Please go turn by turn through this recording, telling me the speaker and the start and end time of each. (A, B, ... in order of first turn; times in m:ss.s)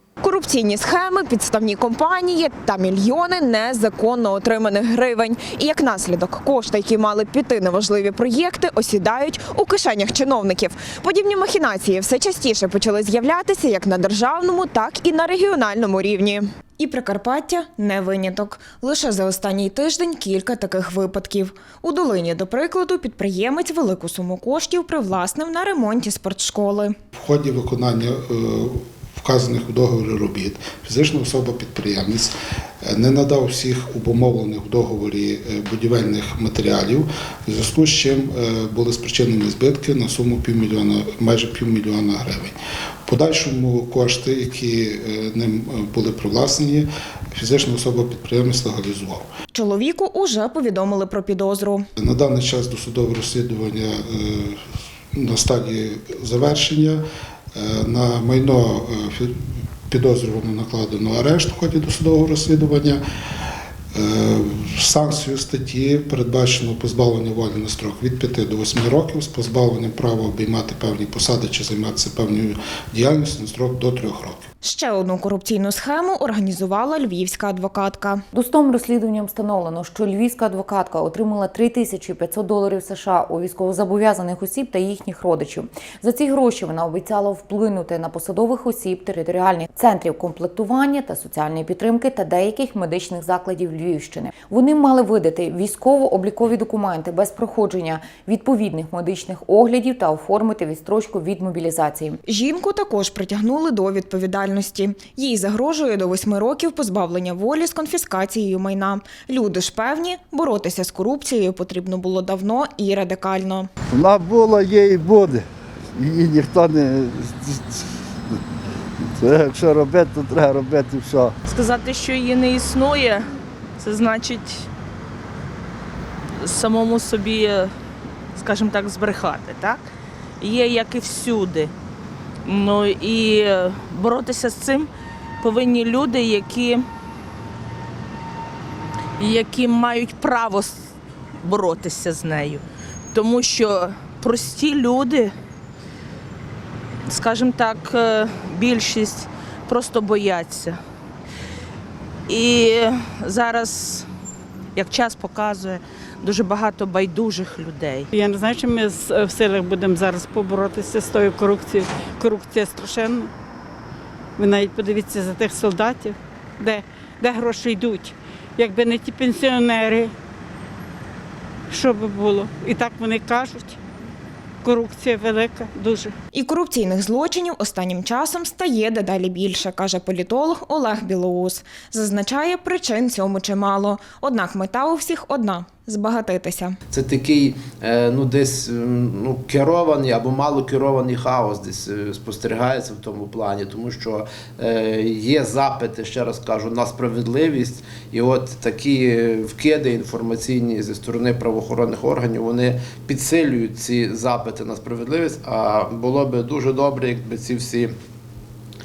0:00.2-0:26.9 A
0:27.1-0:32.3 B
0:32.8-0:49.3 B
0:49.5-0:51.8 A
0:52.0-0:54.6 B
0:55.1-0:57.0 B
0:57.5-0:59.3 B
0:59.9-1:03.0 B
1:03.9-1:14.4 B
1:14.6-1:18.2 A
1:18.3-1:42.2 C
1:42.2-1:53.7 A
1:53.9-1:57.8 D
1:59.0-2:01.3 D
2:01.5-2:03.3 E
2:03.8-2:04.7 E
2:06.4-2:07.7 E
2:08.4-2:09.8 E
2:10.4-2:11.7 E
2:12.4-2:14.9 E
2:15.4-2:16.8 E
2:19.2-2:20.8 E
2:21.4-2:25.3 E
2:27.1-2:30.8 E
2:32.3-2:34.1 E
2:34.8-2:38.1 E
2:38.1-2:43.3 F
2:44.4-2:50.1 F
2:51.7-2:53.8 F
2:54.6-2:56.1 F
2:56.3-3:06.8 A
3:06.9-3:27.9 G